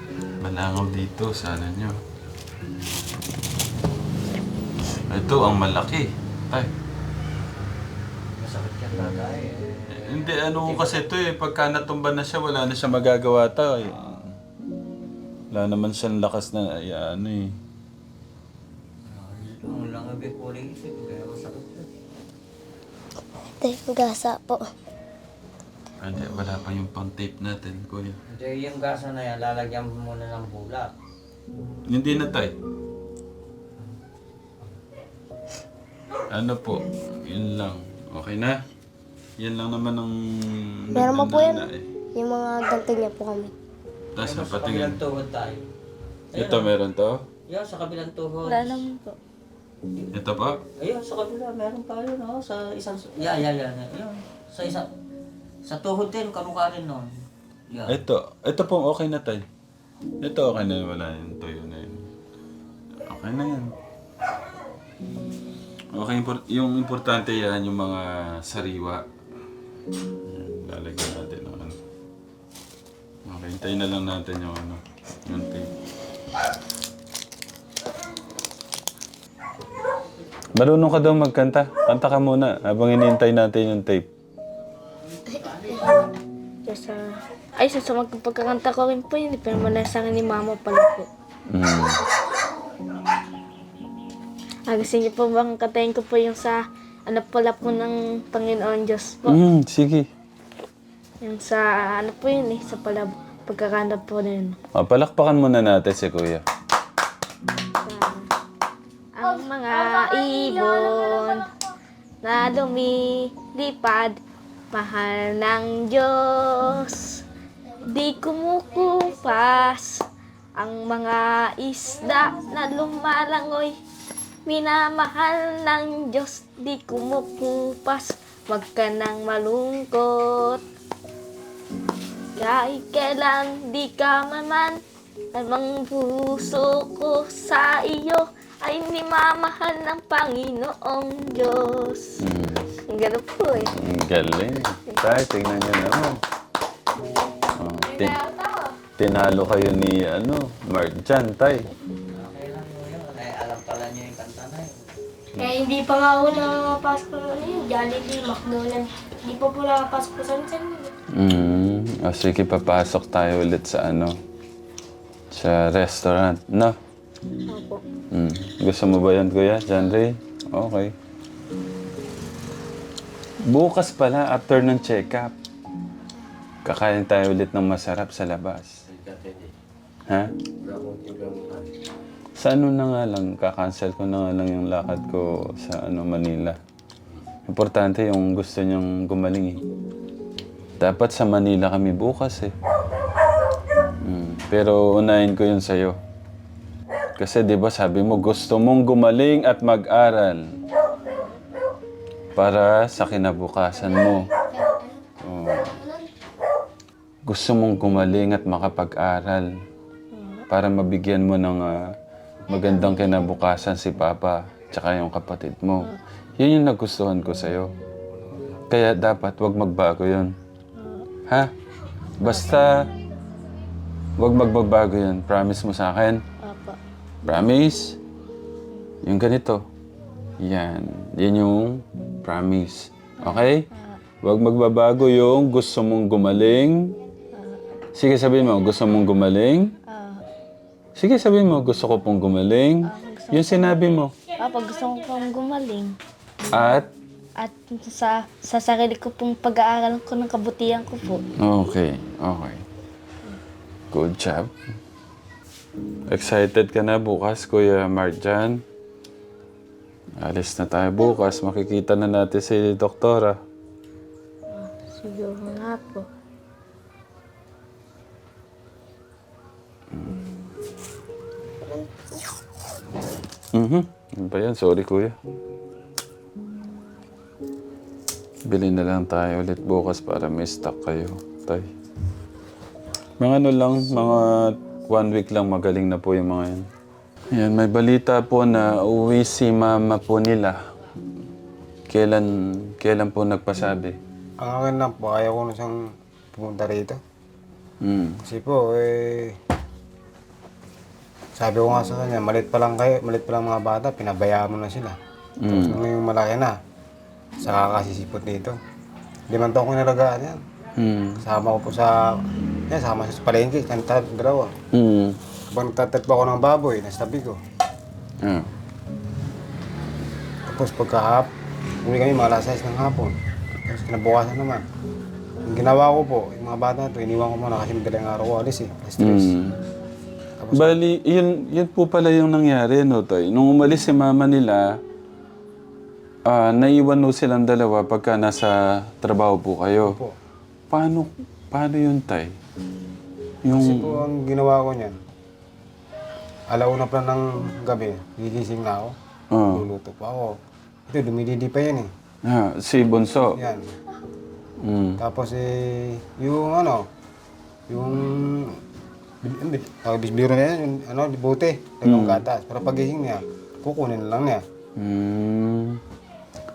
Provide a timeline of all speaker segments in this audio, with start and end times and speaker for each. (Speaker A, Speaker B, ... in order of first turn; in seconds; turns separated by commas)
Speaker A: 0.4-2.0, Speaker A: 5.1-6.7, Speaker B: 8.4-11.1, Speaker A: 9.9-14.3, Speaker A: 15.5-17.5, Speaker B: 19.1-21.9, Speaker C: 23.6-24.7, Speaker A: 26.0-28.2, Speaker B: 28.3-30.9, Speaker A: 31.9-32.5, Speaker A: 36.3-38.6, Speaker A: 39.4-41.9, Speaker C: 40.9-43.5, Speaker A: 44.1-45.0, Speaker B: 44.2-45.6, Speaker B: 46.3-46.7, Speaker A: 46.3-47.2, Speaker B: 47.5-48.8, Speaker D: 48.5-49.2, Speaker A: 50.1-50.6, Speaker B: 50.8-54.9, Speaker B: 55.6-57.1, Speaker B: 57.7-58.0, Speaker A: 57.9-59.5, Speaker A: 60.2-62.1, Speaker A: 63.0-63.7, Speaker A: 65.9-69.0, Speaker A: 70.2-71.8, Speaker A: 73.2-75.7, Speaker A: 80.5-84.1, Speaker D: 86.7-91.1, Speaker A: 91.5-92.0, Speaker D: 94.7-99.4, Speaker A: 99.2-100.1, Speaker D: 101.2-104.6, Speaker A: 104.7-106.4, Speaker D: 107.8-108.3, Speaker D: 109.2-111.4, Speaker C: 109.2-111.7, Speaker D: 112.2-114.2, Speaker D: 114.7-117.2, Speaker D: 117.8-120.0, Speaker C: 118.6-119.6, Speaker D: 120.6-123.7, Speaker D: 124.5-130.6, Speaker D: 132.3-134.8, Speaker D: 135.3-142.2, Speaker A: 142.2-142.7, Speaker D: 142.9-143.7, Speaker A: 143.7-146.2, Speaker A: 147.5-148.2, Speaker C: 147.9-148.8, Speaker A: 149.0-151.7, Speaker B: 152.1-154.9, Speaker C: 155.4-160.9, Speaker A: 161.1-164.1, Speaker A: 165.3-166.8, Speaker D: 167.5-167.8, Speaker A: 168.1-170.9, Speaker A: 173.4-175.3, Speaker A: 176.6-178.8, Speaker E: 180.8-181.3, Speaker A: 182.4-186.6, Speaker A: 187.5-189.6, Speaker A: 190.8-192.5, Speaker A: 194.0-196.0, Speaker A: 197.2-200.4, Speaker A: 202.3-204.3, Speaker C: 203.7-206.1, Speaker A: 205.2-205.8, Speaker A: 207.3-209.5, Speaker D: 210.1-210.4, Speaker A: 210.5-211.8, Speaker A: 212.5-217.7, Speaker A: 218.7-220.3, Speaker D: 220.8-221.1, Speaker A: 221.3-221.5, Speaker A: 222.2-222.9, Speaker A: 224.2-226.2, Speaker D: 226.4-226.8, Speaker A: 227.2-228.0, Speaker A: 229.0-229.6, Speaker A: 230.4-233.7, Speaker D: 233.2-234.0, Speaker A: 234.2-236.9, Speaker D: 237.3-237.8, Speaker A: 237.9-239.7, Speaker D: 239.9-240.2, Speaker A: 241.0-244.1, Speaker D: 242.8-243.8, Speaker D: 244.4-246.0, Speaker A: 246.5-246.9, Speaker D: 247.4-251.2, Speaker A: 251.4-252.6, Speaker A: 253.9-254.5, Speaker A: 256.1-258.6, Speaker A: 260.2-263.4, Speaker D: 264.5-266.1, Speaker A: 273.5-275.1, Speaker A: 278.5-281.7, Speaker A: 283.2-286.6, Speaker A: 287.3-290.6, Speaker A: 291.9-293.9, Speaker E: 294.4-297.0, Speaker A: 297.8-298.2, Speaker E: 298.2-299.4, Speaker E: 301.4-305.0, Speaker A: 305.4-305.8, Speaker E: 305.5-306.6, Speaker E: 307.4-308.6, Speaker E: 309.3-310.4, Speaker A: 310.8-311.2, Speaker E: 311.2-314.5, Speaker A: 314.7-315.2, Speaker E: 315.5-317.4, Speaker A: 318.2-318.5, Speaker E: 320.5-321.3, Speaker E: 321.8-323.1, Speaker E: 323.7-324.7, Speaker E: 325.5-329.3, Speaker A: 329.0-329.6, Speaker E: 330.4-330.8, Speaker A: 330.5-334.8, Speaker A: 336.2-339.9, Speaker E: 339.9-340.1, Speaker A: 340.7-342.3, Speaker A: 343.4-343.9, Speaker E: 343.6-345.0, Speaker E: 346.5-348.9, Speaker A: 349.3-349.6, Speaker E: 349.5-351.9, Speaker A: 352.2-353.4, Speaker E: 353.4-353.8, Speaker A: 354.6-355.0, Speaker E: 355.0-356.9, Speaker E: 357.7-358.6, Speaker E: 359.2-364.4, Speaker A: 361.9-362.2, Speaker A: 364.8-365.8